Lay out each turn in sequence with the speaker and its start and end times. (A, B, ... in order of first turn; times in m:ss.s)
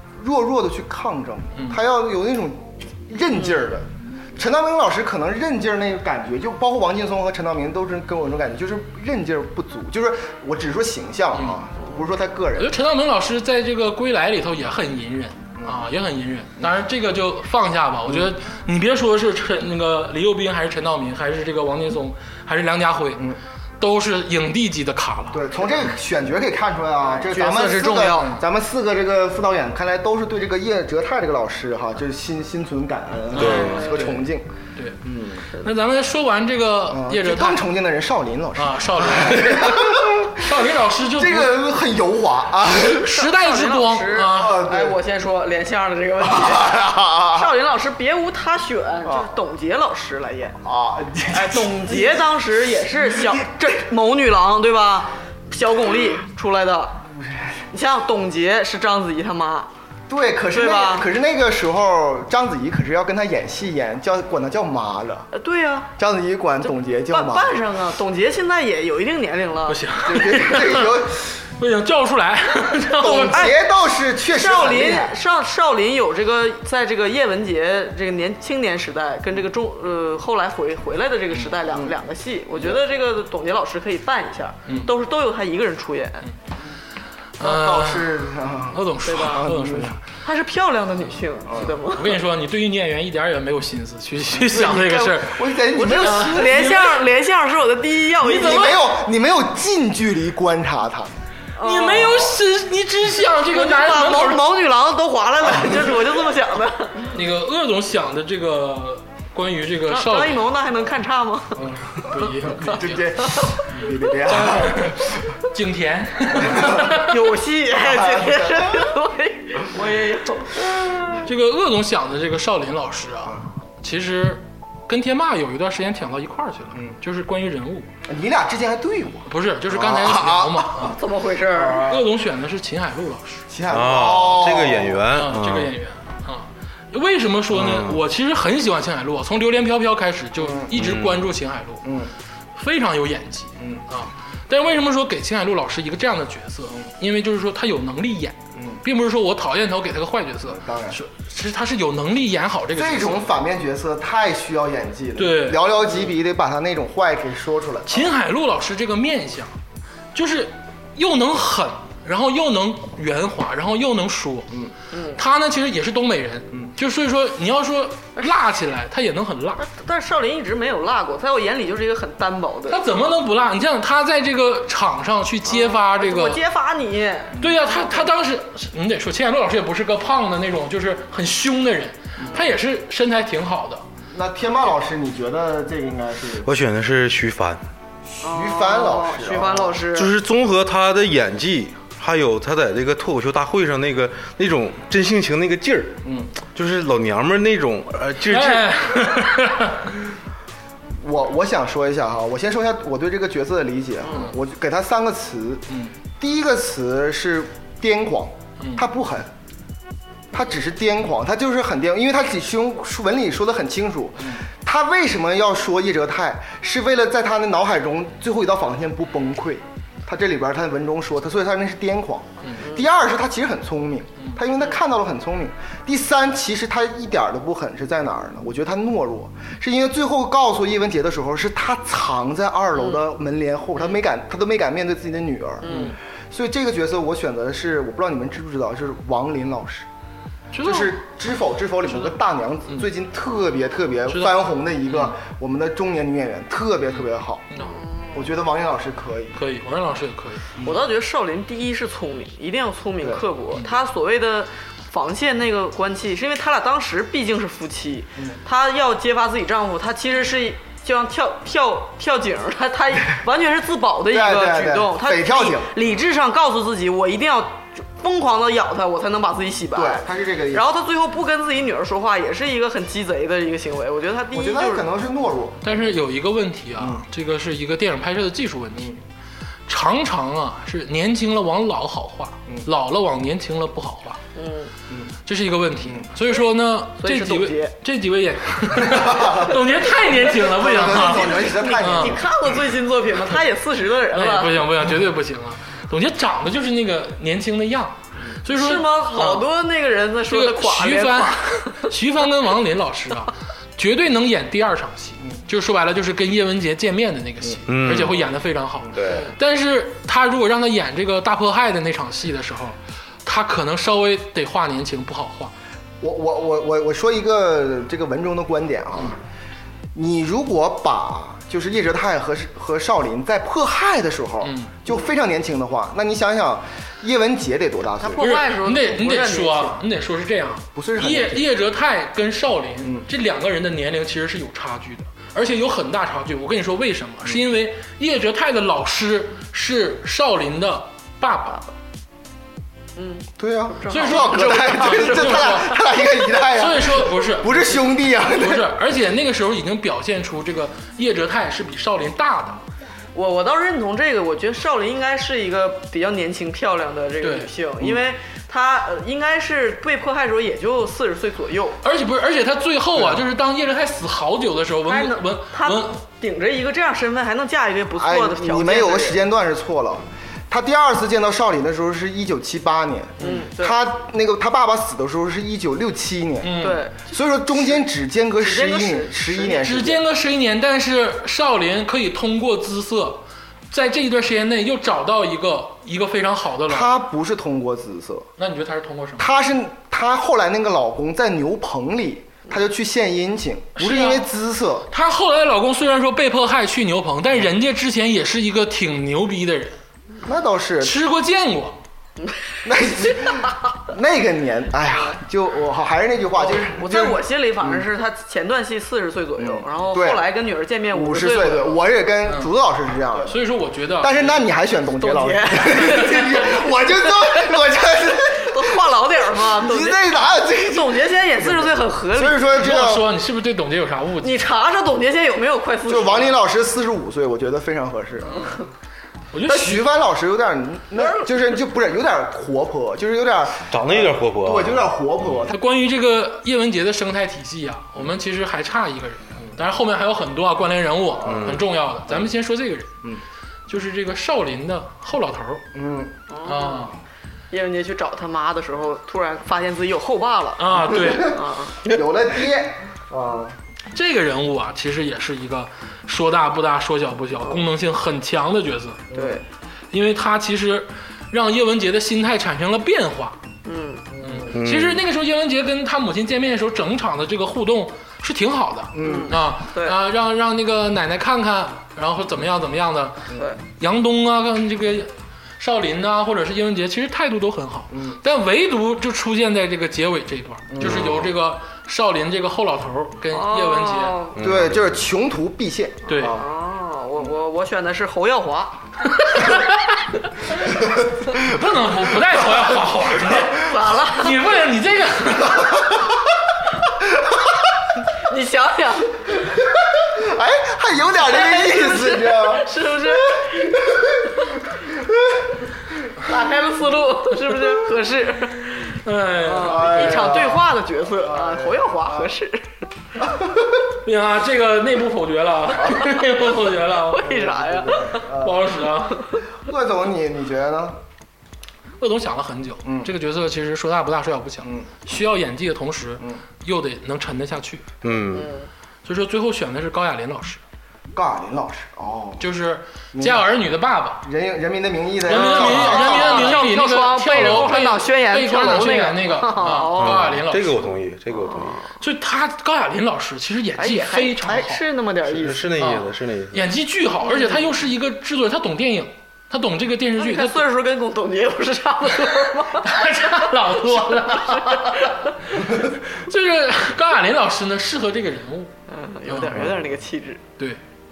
0:00.2-0:12.8 A
0:01.6-0:01.8 B
0:12.6-0:25.6 B
0:15.6-0:15.8 A
0:25.3-0:34.5 A
0:27.1-0:28.4 C
0:33.3-0:34.2 B
0:33.4-0:33.9 D
0:35.0-0:35.4 A
0:35.5-0:37.6 B
0:36.9-0:40.5 A
0:38.6-0:41.6 B
0:41.1-0:43.1 A
0:42.8-0:44.6 B
0:43.0-0:50.6 C
0:44.2-0:45.0 A
0:46.2-0:47.5 A
0:49.0-0:49.3 A
0:50.6-0:52.2 A
0:51.3-0:57.0 C
0:53.3-0:53.7 A
0:57.1-0:57.7 A
0:57.7-0:59.7 C
1:00.1-1:05.3 A
1:00.5-1:01.1 C
1:05.3-1:05.9 C
1:06.0-1:07.6 A
1:07.1-1:09.8 C
1:09.7-1:10.9 B
1:10.0-1:11.4 A
1:11.6-1:13.5 B
1:13.0-1:15.2 A
1:13.3-1:13.6 C
1:14.3-1:26.2 C
1:27.4-1:28.2 B
1:27.4-1:29.9 A
1:28.7-1:30.0 B
1:29.1-1:29.4 C
1:30.2-1:32.2 C
1:31.5-1:31.8 A
1:31.9-1:35.4 B
1:34.6-1:36.5 A
1:34.6-1:35.2 C
1:35.7-1:38.9 C
1:36.0-1:37.0 B
1:38.2-1:38.7 B
1:38.3-1:41.1 A
1:41.6-1:42.4 C
1:41.6-1:44.4 B
1:43.5-1:47.1 C
1:47.1-1:50.4 B
1:49.9-1:51.6 C
1:51.6-1:55.3 A
1:51.9-1:53.1 B
1:54.3-1:57.1 B
1:56.4-1:56.8 A
1:56.9-2:01.2 C
1:57.8-1:58.9 A
2:01.2-2:07.9 B
2:08.1-2:10.9 A
2:09.3-2:11.0 B
2:10.8-2:11.9 C
2:11.5-2:12.0 A
2:11.8-2:13.4 B
2:13.5-2:15.0 A
2:13.7-2:15.7 D
2:15.1-2:21.9 B
2:17.5-2:18.0 D
2:20.4-2:20.8 A
2:20.7-2:21.3 D
2:21.8-2:22.1 A
2:22.6-2:33.3 B
2:28.6-2:28.8 A
2:30.5-2:31.0 A
2:32.7-2:38.1 A
2:35.2-2:35.6 B
2:37.9-2:39.5 B
2:40.1-2:44.5 B
2:44.9-2:45.2 C
2:45.1-2:49.6 B
2:49.6-2:52.8 C
2:52.7-2:56.4 B
2:55.4-2:58.1 C
2:57.4-3:03.8 B
3:04.1-3:06.5 A
3:06.4-3:07.6 D
3:08.2-3:09.8 A
3:08.2-3:10.1 C
3:09.9-3:18.8 D
3:18.3-3:19.9 B
3:21.0-3:25.7 A
3:24.1-3:24.3 B
3:25.7-3:25.9 B
3:26.2-3:29.3 A
3:28.6-3:28.8 B
3:30.3-3:59.9 A
3:55.6-3:56.0 C
3:55.7-3:55.9 B
4:00.5-4:01.0 B
4:00.6-4:07.4 A
4:04.1-4:05.1 B
4:07.6-4:08.3 C
4:08.1-4:09.4 A
4:09.4-4:10.5 B
4:10.6-4:34.8 C
4:24.1-4:25.7 A
4:29.7-4:30.7 A
4:34.3-4:35.8 A
4:35.6-4:39.0 B
4:36.8-4:37.0 A
4:39.7-4:44.2 B
4:44.4-4:44.7 C
4:45.3-4:52.2 B
4:47.0-4:47.7 C
4:48.9-4:49.6 A
4:50.3-4:52.4 A
4:50.9-4:54.7 C
4:54.1-4:59.4 B
4:58.5-5:01.9 C
5:00.3-5:15.5 B
5:07.7-5:08.3 D
5:08.9-5:09.2 A
5:08.9-5:09.3 D
5:16.0-5:19.2 A
5:19.9-5:28.3 A
5:24.4-5:24.7 B
5:28.0-5:29.8 C
5:28.2-5:41.6 B
5:30.7-5:31.4 A
5:43.0-5:45.8 C
5:43.4-5:48.7 A
5:43.9-5:45.8 B
5:46.5-5:52.6 B
5:53.1-6:01.8 C
5:57.2-5:57.5 B
6:01.8-6:06.0 B
6:03.0-6:03.2 A
6:04.9-6:09.2 C
6:08.0-6:20.0 A
6:13.2-6:13.8 C
6:16.4-6:16.8 B
6:16.6-6:17.1 C
6:18.4-6:19.6 C
6:19.5-6:26.9 B
6:26.7-6:28.3 A
6:28.4-6:29.3 B
6:29.2-6:34.9 A
6:33.8-6:34.3 B
6:34.9-6:39.8 B
6:40.2-6:41.0 A
6:40.8-6:41.8 B
6:42.2-6:42.6 C
6:42.6-6:47.8 A
6:46.4-6:51.8 C
6:49.4-6:50.3 A
6:50.9-6:53.3 A
6:53.3-6:54.4 B
6:54.0-6:58.8 A
6:55.0-6:57.5 C
6:58.2-7:02.6 C
6:59.5-7:03.1 A
7:02.5-7:04.4 B
7:04.2-7:06.4 C
7:05.9-7:08.6 A
7:09.3-7:09.9 B
7:09.4-7:15.6 A
7:11.0-7:11.3 C
7:13.7-7:14.8 D
7:15.5-7:22.9 B
7:21.2-7:21.6 A
7:21.2-7:21.6 D
7:23.7-7:25.6 B
7:25.7-7:26.2 A
7:26.3-7:26.9 C
7:26.4-7:26.9 B
7:27.5-7:31.8 C
7:30.6-7:31.4 B
7:30.9-7:33.6 A
7:33.9-7:39.1 B
7:39.1-7:39.4 A
7:39.1-7:39.4 C
7:39.9-7:43.4 B
7:43.6-7:44.1 C
7:44.1-7:44.5 A
7:44.2-7:53.3 B
7:44.5-7:45.0 D
7:48.9-7:49.4 A
7:49.0-7:50.0 C
7:53.3-7:53.6 C
7:53.8-8:04.2 B
7:57.9-7:58.2 A
8:00.7-8:01.2 A
8:00.8-8:01.3 D
8:03.3-8:04.4 C
8:04.4-8:04.9 D
8:04.4-8:06.4 A
8:06.1-8:06.4 B
8:06.2-8:08.8 C
8:09.2-8:10.0 B
8:11.3-8:15.8 B
8:13.4-8:14.4 C
8:18.3-8:19.3 C
8:20.0-8:22.7 A
8:21.2-8:23.8 C
8:23.3-8:25.5 A
8:26.2-8:32.7 C
8:29.0-8:30.5 B
8:29.6-8:32.3 A
8:33.2-8:33.8 A
8:34.0-8:37.3 B
8:35.9-8:36.2 C
8:36.9-8:38.3 C
8:37.2-8:38.7 A
8:38.4-8:39.3 B
8:39.1-8:39.4 C
8:39.6-8:41.0 A
8:42.0-8:47.9 B
8:42.8-8:43.1 A
8:44.6-8:44.9 A
8:48.0-8:48.5 D
8:48.3-8:48.7 C
8:49.0-8:50.6 B
8:51.1-8:52.4 A
8:52.4-8:54.2 B
8:53.1-8:53.5 A
8:54.2-8:56.7 A
8:55.2-9:00.9 B
8:55.3-9:00.3 C
9:00.0-9:01.8 D
9:01.4-9:01.8 C
9:02.0-9:04.8 B
9:03.8-9:05.8 C
9:05.2-9:06.7 D
9:05.8-9:10.6 B
9:07.2-9:07.7 C
9:10.2-9:13.4 C
9:12.8-9:18.7 B
9:14.1-9:15.1 C
9:18.9-9:20.4 C
9:19.3-9:19.6 B
9:19.5-9:19.8 D